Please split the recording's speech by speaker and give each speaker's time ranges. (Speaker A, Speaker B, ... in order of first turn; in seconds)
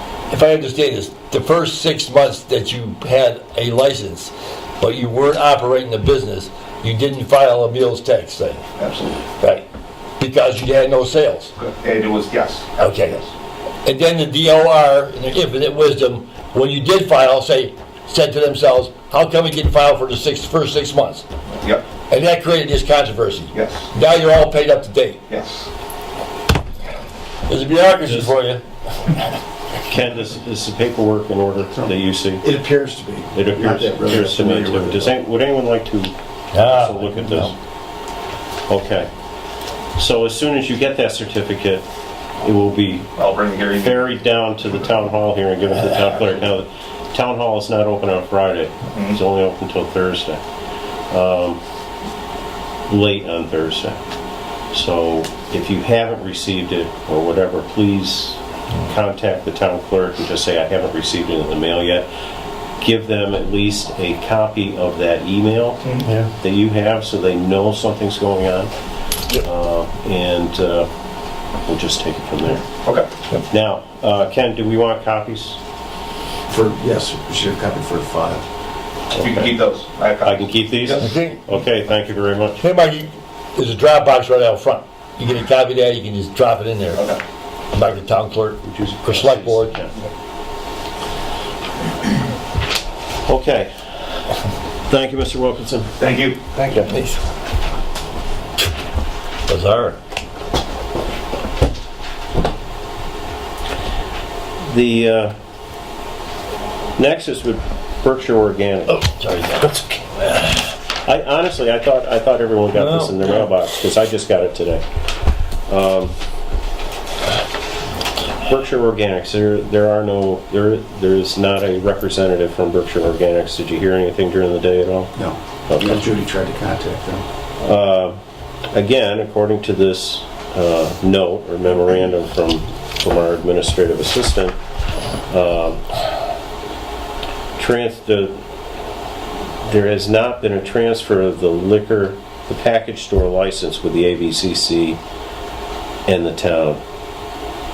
Speaker A: 0.3-8.6, 9.4-9.6, 10.2-11.5, 12.8-13.2, 13.8-21.2, 22.1-25.2, 27.5-28.6, 36.5-37.5, 81.0-81.5, 82.6-87.0, 87.7-89.7, 96.9-97.2, 99.5-100.0, 108.9-110.6, 112.8-113.5
Speaker B: 8.8-9.2, 11.6-13.2, 23.5-23.9, 25.3-25.7, 43.1-44.0, 48.9-49.2, 79.1-81.1, 86.9-87.2, 96.0-96.5
Speaker C: 29.9-32.4, 33.3-37.5, 38.7-39.1, 40.0-41.9, 42.4-43.1, 43.8-50.4, 51.1-51.6, 52.9-54.0, 54.7-62.1, 62.8-68.7, 69.3-70.9, 71.6-72.6, 73.5-75.6, 79.2-79.5, 80.2-82.6, 88.6-89.9, 93.3-93.7, 94.9-95.9, 96.6-96.9, 104.6-105.3, 107.0-109.0, 111.0-114.8, 115.7-116.1, 118.5-125.1, 125.7-126.0, 127.6-128.2, 128.7-134.6, 135.3-135.8, 137.6-138.4, 139.7-145.0, 146.1-146.8
Speaker D: 31.8-35.1, 76.5-78.4, 125.2-127.2